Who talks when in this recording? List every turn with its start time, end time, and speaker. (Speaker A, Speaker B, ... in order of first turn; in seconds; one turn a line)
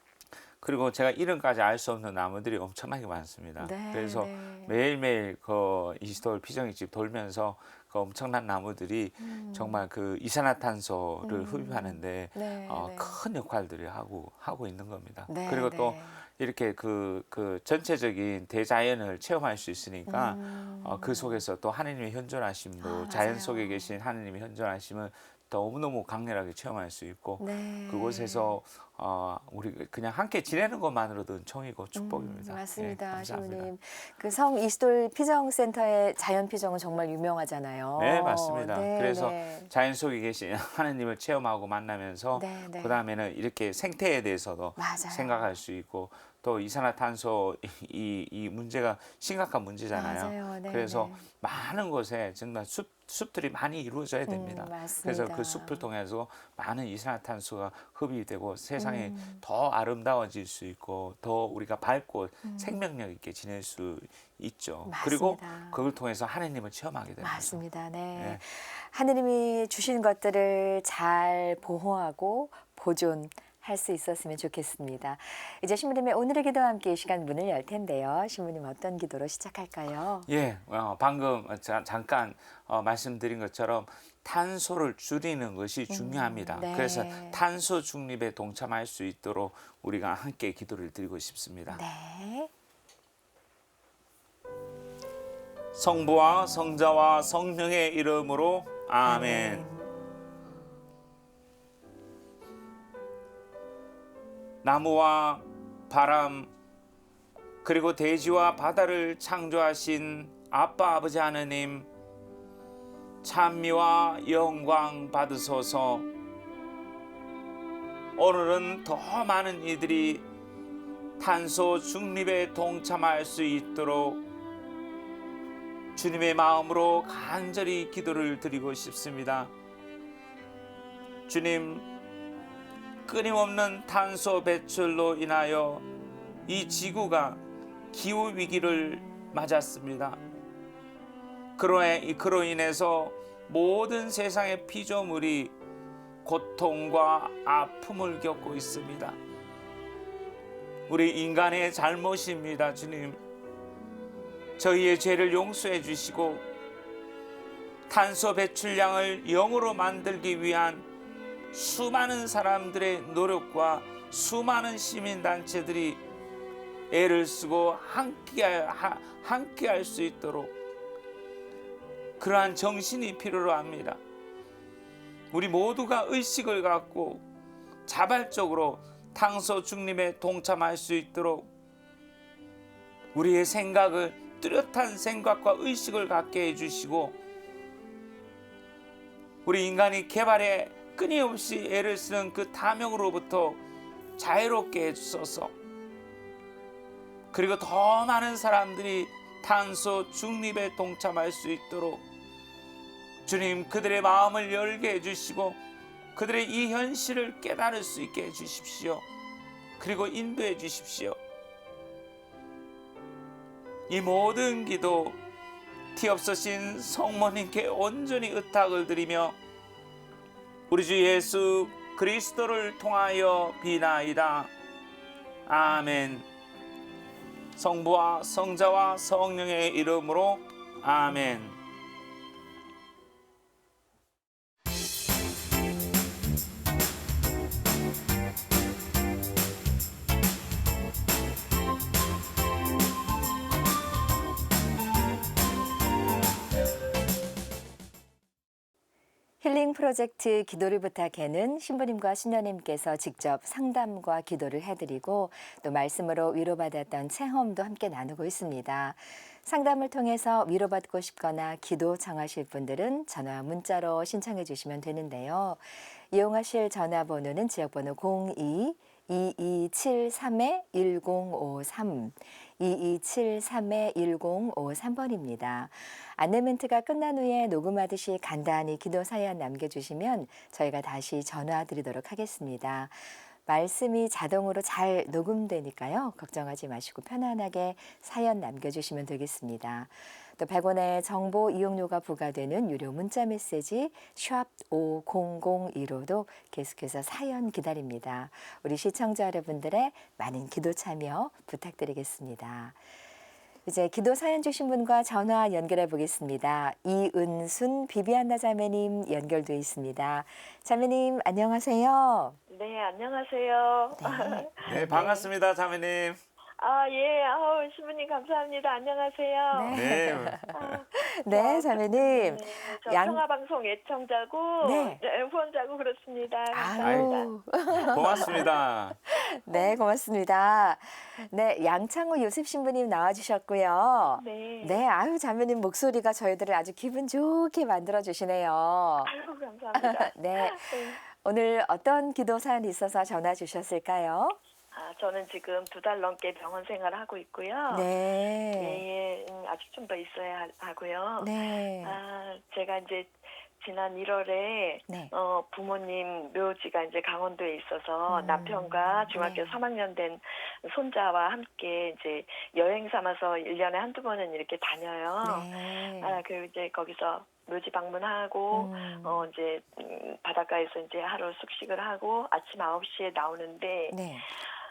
Speaker A: 0.6-33.7
Speaker B: 3.6-4.8
Speaker B: 9.2-9.9
Speaker B: 11.2-13.2
Speaker B: 15.3-16.2
Speaker B: 20.1-21.4
Speaker B: 22.8-23.9
Speaker B: 27.4-28.6
Speaker B: 31.9-39.7
Speaker A: 38.0-67.6
Speaker B: 42.3-43.0
Speaker B: 44.8-45.5
Speaker B: 49.9-51.2
Speaker B: 54.3-55.8
Speaker B: 58.8-59.4
Speaker B: 62.4-62.8
Speaker B: 64.8-65.8
Speaker B: 67.2-80.3
Speaker A: 68.2-68.4
Speaker A: 80.3-91.8
Speaker B: 85.9-87.4
Speaker B: 91.7-92.5
Speaker A: 95.7-99.6
Speaker B: 99.0-99.9
Speaker A: 104.6-106.5
Speaker A: 107.6-111.9
Speaker A: 113.2-116.1
Speaker A: 118.2-120.3
Speaker A: 121.2-124.2
Speaker A: 126.0-129.5
Speaker A: 131.3-131.9
Speaker A: 133.1-135.8
Speaker A: 136.5-140.2
Speaker A: 141.6-145.5
Speaker A: 146.2-149.2
Speaker A: 150.9-153.2
Speaker A: 154.6-156.5
Speaker A: 157.9-160.9
Speaker A: 161.5-166.0
Speaker A: 166.9-170.5
Speaker A: 172.2-174.0
Speaker A: 175.3-177.2
Speaker A: 177.9-181.5
Speaker A: 183.1-187.2
Speaker A: 189.4-193.6
Speaker A: 194.2-195.5
Speaker A: 197.3-202.0
Speaker A: 203.2-205.6
Speaker A: 206.2-209.1
Speaker A: 209.8-211.2
Speaker A: 213.9-215.2
Speaker A: 215.9-219.4
Speaker A: 220.7-224.5
Speaker A: 225.5-226.3
Speaker A: 227.6-231.6
Speaker B: 249.4-302.8
Speaker B: 303.7-312.4
Speaker C: 312.5-315.3
Speaker B: 314.0-315.1
Speaker A: 314.6-316.2
Speaker C: 316.6-328.5
Speaker B: 319.5-323.2
Speaker A: 319.7-320.8
Speaker B: 324.6-325.0
Speaker B: 326.5-328.5
Speaker A: 326.8-327.1
Speaker A: 327.9-329.0
Speaker B: 329.1-339.1
Speaker C: 329.5-329.8
Speaker C: 334.2-334.8
Speaker C: 339.1-341.0
Speaker B: 339.8-344.4
Speaker C: 344.7-347.9
Speaker B: 347.7-348.8
Speaker C: 348.6-374.0
Speaker B: 351.2-352.0
Speaker B: 358.1-359.6
Speaker B: 365.2-366.2
Speaker B: 368.5-369.2
Speaker B: 373.9-374.3